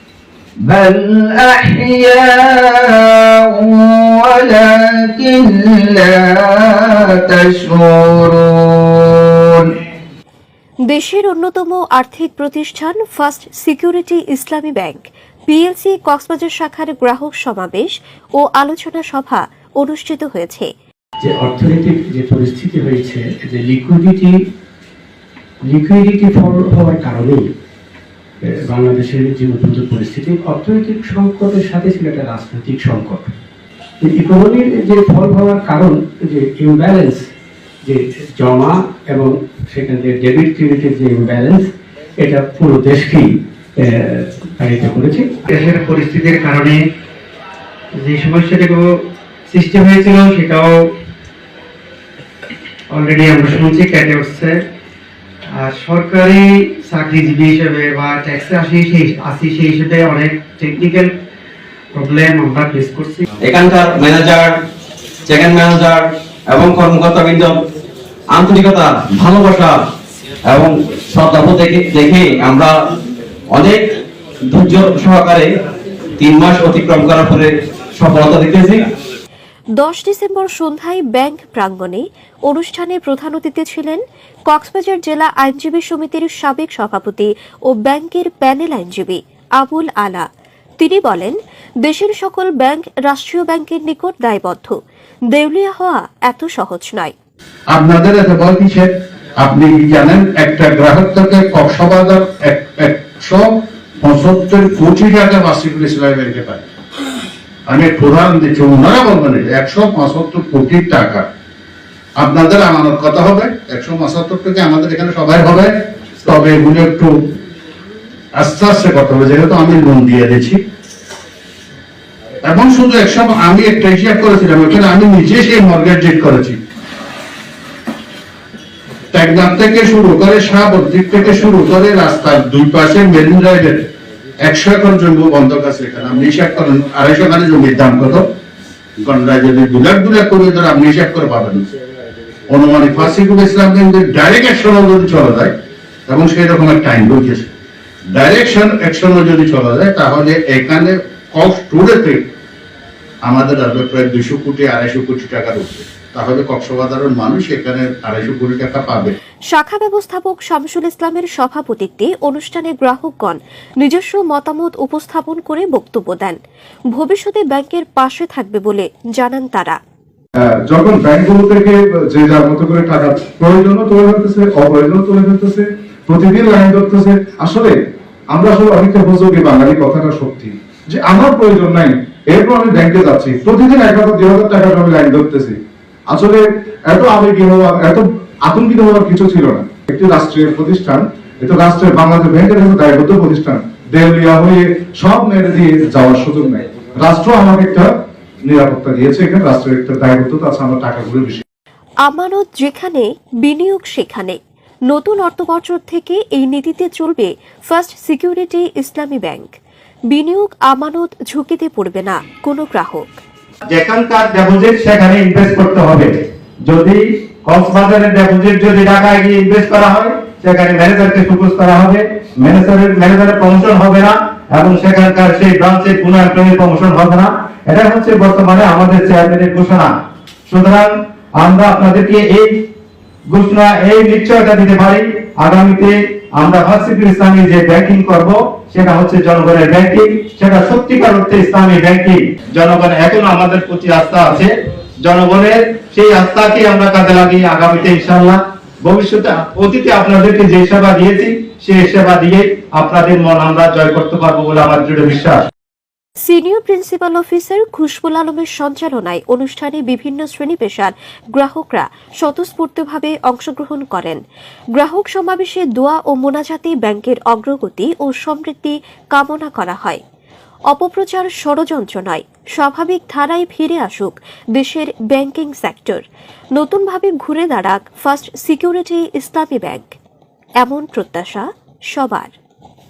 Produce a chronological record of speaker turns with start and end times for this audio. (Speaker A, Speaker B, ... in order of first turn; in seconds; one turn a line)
Speaker A: 0.6-9.8
Speaker B: 10.9-20.7
Speaker C: 21.2-24.4
Speaker C: 25.6-27.4
Speaker C: 28.4-33.3
Speaker C: 34.0-37.2
Speaker C: 37.8-45.4
Speaker D: 45.6-46.8
Speaker D: 48.0-48.8
Speaker D: 49.5-50.7
Speaker D: 53.0-54.5
Speaker D: 55.6-61.1
Speaker D: 62.0-63.2
Speaker E: 63.4-64.5
Speaker E: 65.3-67.5
Speaker E: 68.3-69.8
Speaker E: 70.5-72.7
Speaker E: 73.5-73.8
Speaker E: 74.5-75.5
Speaker E: 76.2-78.8
Speaker B: 79.8-90.3
Speaker B: 90.8-94.8
Speaker B: 95.3-97.1
Speaker F: 97.7-106.6
Speaker F: 107.7-111.2
Speaker F: 112.2-115.7
Speaker F: 116.2-117.1
Speaker F: 118.3-120.6
Speaker F: 122.4-126.6
Speaker F: 129.1-133.9
Speaker F: 134.4-138.3
Speaker F: 139.0-141.7
Speaker F: 142.5-145.5
Speaker F: 146.1-147.5
Speaker F: 148.1-152.2
Speaker F: 153.2-159.2
Speaker B: 159.5-166.4
Speaker B: 166.9-169.8
Speaker G: 170.7-177.7
Speaker G: 178.3-185.6
Speaker G: 186.1-197.9
Speaker G: 198.4-201.4
Speaker B: 202.0-209.6
Speaker B: 210.1-213.2
Speaker H: 213.7-216.1
Speaker H: 216.7-229.9
Speaker H: 230.5-232.5
Speaker H: 233.3-255.4
Speaker B: 256.2-264.2
Speaker B: 264.7-270.0
Speaker B: 270.7-276.0
Speaker B: 276.6-279.9
Speaker B: 280.6-282.3